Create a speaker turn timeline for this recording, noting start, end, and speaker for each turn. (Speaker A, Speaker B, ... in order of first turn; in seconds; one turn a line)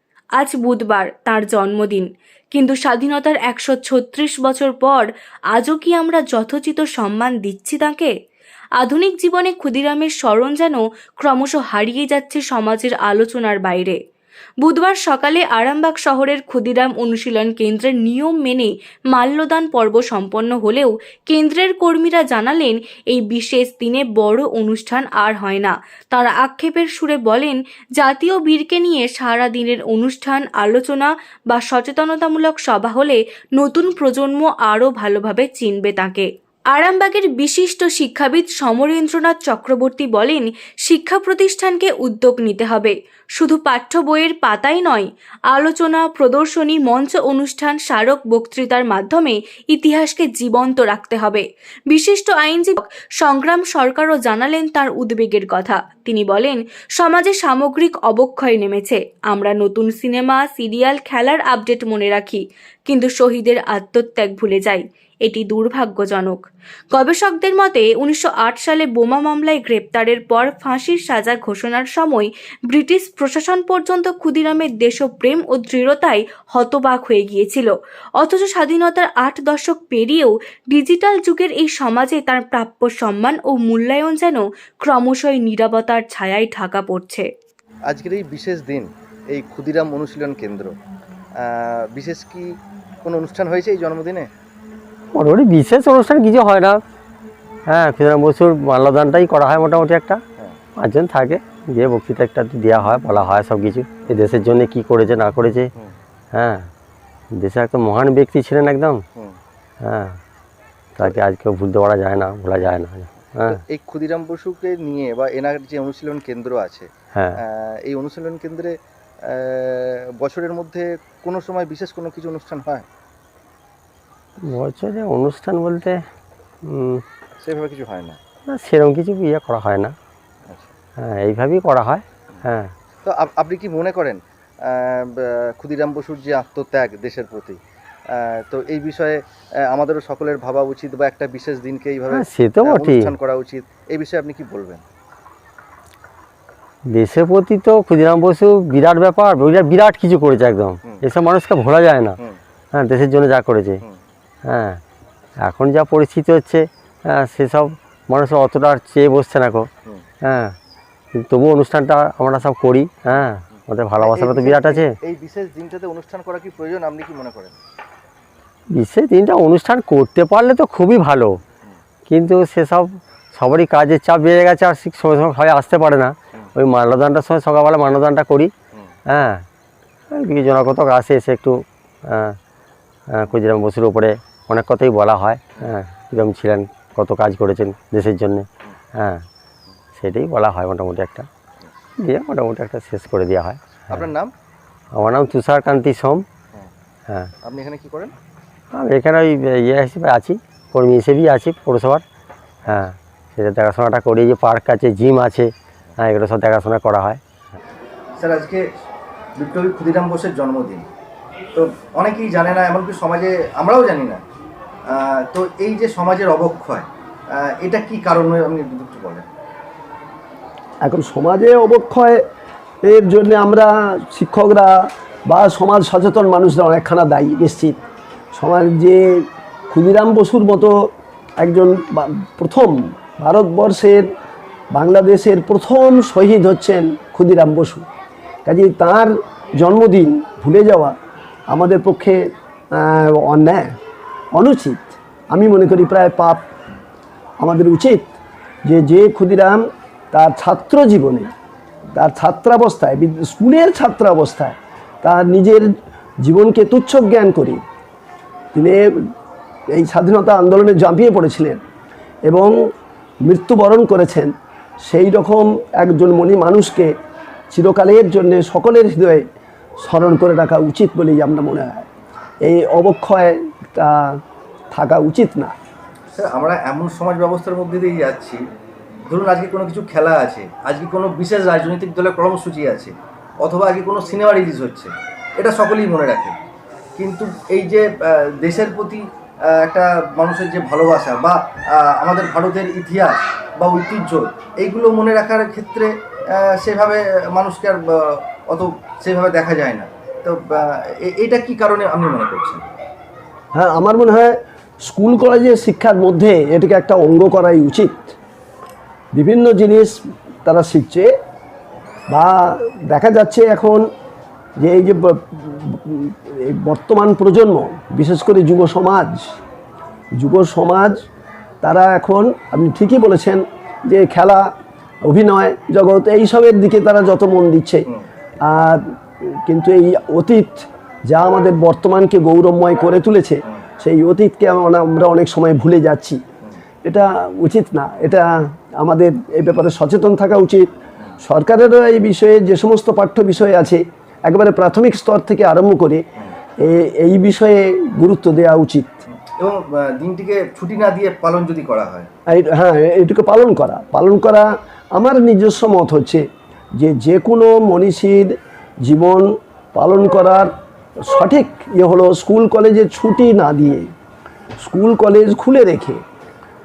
Speaker A: 0.4-8.1
Speaker A: 8.8-14.0
Speaker A: 14.6-66.4
Speaker A: 66.9-87.3
Speaker B: 87.9-90.7
Speaker B: 91.4-92.5
Speaker B: 93.0-94.3
Speaker C: 95.1-96.8
Speaker C: 97.7-100.2
Speaker C: 100.8-105.7
Speaker C: 106.3-106.7
Speaker C: 107.3-109.0
Speaker C: 109.8-110.2
Speaker C: 111.0-113.6
Speaker B: 113.5-116.9
Speaker B: 117.4-118.7
Speaker B: 119.3-122.9
Speaker C: 124.4-126.0
Speaker C: 126.6-127.0
Speaker B: 127.4-128.2
Speaker C: 128.5-129.9
Speaker C: 131.0-132.7
Speaker B: 133.0-137.6
Speaker B: 138.1-144.8
Speaker C: 142.1-143.1
Speaker C: 146.9-152.2
Speaker C: 152.7-153.8
Speaker C: 154.4-154.8
Speaker C: 155.4-159.7
Speaker C: 160.2-160.5
Speaker C: 161.2-164.9
Speaker B: 163.2-167.6
Speaker C: 168.7-171.4
Speaker C: 172.1-178.5
Speaker C: 179.1-179.4
Speaker C: 180.1-182.3
Speaker C: 183.1-189.2
Speaker C: 190.0-191.3
Speaker C: 192.0-194.1
Speaker B: 193.9-194.3
Speaker C: 194.9-196.2
Speaker B: 197.4-198.1
Speaker C: 198.7-202.0
Speaker C: 202.7-207.2
Speaker B: 208.2-208.6
Speaker B: 209.4-210.9
Speaker B: 211.5-214.2
Speaker B: 214.9-219.3
Speaker D: 220.8-222.2
Speaker D: 222.8-227.8
Speaker D: 228.3-234.1
Speaker D: 234.7-237.8
Speaker D: 238.4-240.9
Speaker D: 241.5-242.2
Speaker D: 242.7-243.7
Speaker D: 244.3-246.5
Speaker D: 247.4-248.2
Speaker D: 248.7-251.3
Speaker D: 252.0-255.7
Speaker D: 256.2-257.6
Speaker D: 258.5-258.9
Speaker D: 259.7-261.6
Speaker D: 262.3-262.5
Speaker D: 263.2-266.9
Speaker D: 267.5-269.2
Speaker D: 269.8-271.8
Speaker D: 272.4-274.2
Speaker D: 274.7-275.5
Speaker B: 276.1-278.4
Speaker B: 279.1-286.4
Speaker B: 287.0-289.0
Speaker B: 289.6-302.6
Speaker D: 303.5-308.1
Speaker D: 309.1-311.1
Speaker D: 312.1-313.8
Speaker D: 314.6-319.2
Speaker D: 320.2-321.0
Speaker D: 321.6-324.5
Speaker D: 325.0-327.9
Speaker D: 328.4-336.2
Speaker D: 336.8-340.7
Speaker D: 341.2-346.0
Speaker D: 346.6-349.0
Speaker B: 349.3-352.1
Speaker D: 352.3-356.2
Speaker D: 356.8-358.3
Speaker D: 358.8-360.5
Speaker D: 361.1-363.9
Speaker D: 364.6-366.0